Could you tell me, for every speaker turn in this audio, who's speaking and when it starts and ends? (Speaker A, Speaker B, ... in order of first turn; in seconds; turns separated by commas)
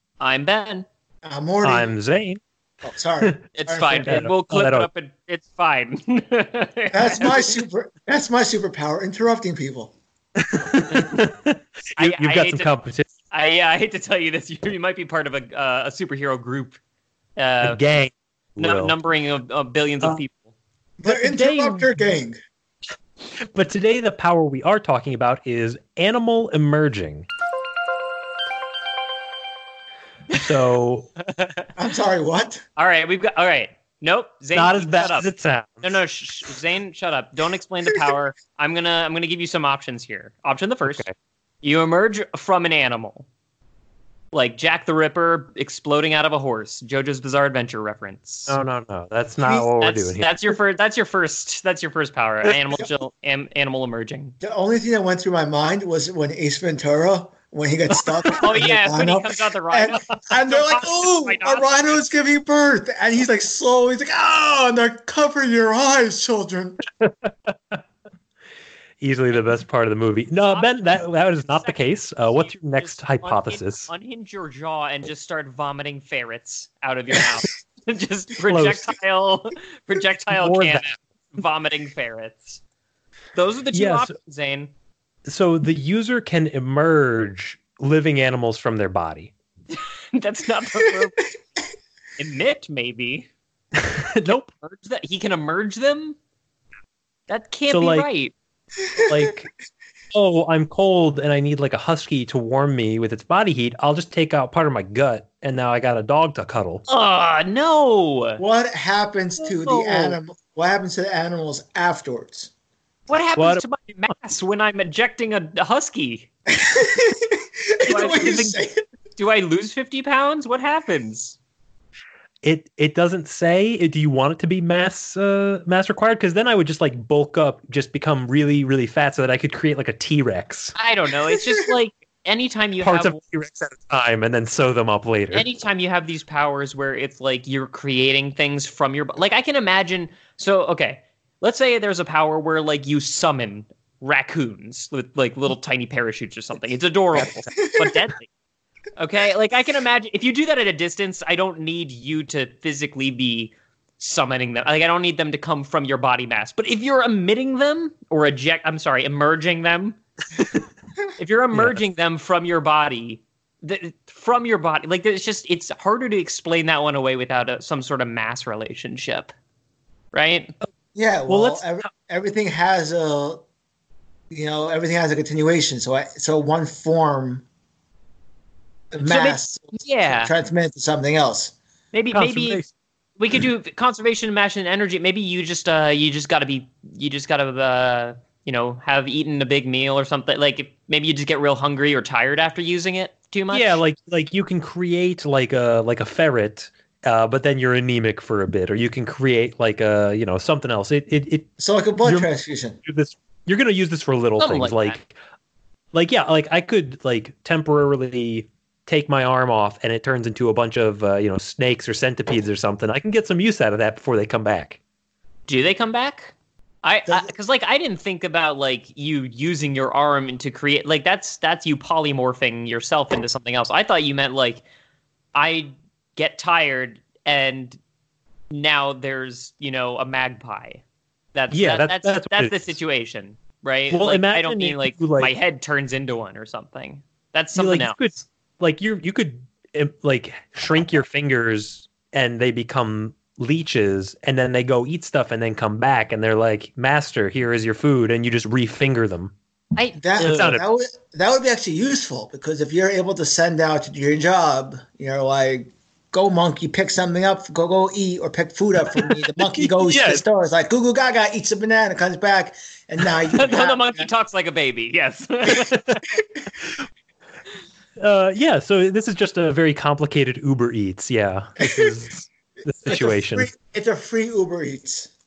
Speaker A: 0.2-0.8, Speaker B: 1.2-1.9, Speaker C: 1.6-2.4, Speaker B: 2.8-4.2, Speaker A: 3.5-7.6, Speaker C: 3.9-4.9, Speaker B: 6.9-9.9, Speaker C: 10.4-13.1, Speaker A: 12.0-12.7, Speaker A: 13.3-16.8, Speaker A: 17.4-17.8, Speaker C: 17.6-18.9, Speaker A: 18.6-20.5, Speaker B: 21.0-22.4, Speaker C: 21.1-22.0, Speaker C: 23.4-27.3, Speaker C: 30.3-31.1, Speaker A: 31.2-31.7, Speaker B: 31.8-32.6, Speaker A: 32.8-35.3, Speaker C: 34.5-36.0, Speaker A: 35.8-41.0, Speaker A: 41.6-43.2, Speaker A: 44.3-48.6, Speaker C: 48.5-50.5, Speaker B: 49.4-49.7, Speaker A: 49.8-54.3, Speaker B: 54.4-66.8, Speaker A: 58.4-62.0, Speaker C: 67.0-67.8, Speaker C: 69.0-73.9, Speaker A: 70.4-82.6, Speaker C: 78.5-78.9, Speaker C: 80.3-81.0, Speaker A: 83.3-84.7, Speaker C: 83.7-84.1, Speaker C: 85.2-89.3, Speaker A: 89.7-91.4, Speaker A: 92.2-93.3, Speaker C: 93.8-94.5, Speaker A: 94.2-96.2, Speaker A: 97.3-98.3, Speaker C: 97.7-98.1, Speaker C: 99.0-99.5, Speaker C: 100.1-106.8, Speaker A: 106.9-108.4, Speaker B: 108.4-112.5, Speaker A: 109.4-110.2, Speaker A: 113.1-116.3, Speaker C: 113.3-114.1, Speaker B: 116.5-118.8, Speaker A: 117.9-118.6, Speaker A: 119.2-121.4, Speaker C: 122.4-130.7, Speaker A: 130.8-133.2, Speaker C: 132.8-135.5, Speaker A: 135.3-148.3, Speaker B: 147.5-148.0, Speaker A: 149.0-160.0, Speaker A: 161.2-169.3, Speaker C: 161.5-161.8, Speaker A: 170.1-170.5, Speaker B: 170.9-173.4, Speaker C: 171.3-171.9, Speaker B: 174.3-177.4, Speaker B: 178.9-181.5, Speaker A: 179.0-180.3, Speaker A: 181.9-182.6, Speaker C: 182.1-182.7, Speaker A: 183.2-193.8, Speaker C: 193.5-201.5, Speaker B: 201.6-202.8, Speaker C: 202.0-205.2, Speaker A: 204.4-205.0, Speaker C: 205.9-214.8, Speaker A: 215.5-224.6, Speaker A: 225.3-227.8, Speaker A: 228.5-230.8, Speaker A: 231.3-238.1, Speaker C: 231.5-232.7, Speaker C: 233.9-235.3, Speaker C: 237.5-249.3, Speaker A: 249.8-250.6, Speaker B: 250.0-264.1, Speaker C: 250.2-250.6, Speaker C: 259.5-260.2, Speaker A: 263.3-266.0, Speaker C: 268.0-273.5, Speaker B: 271.6-271.9, Speaker B: 272.9-275.1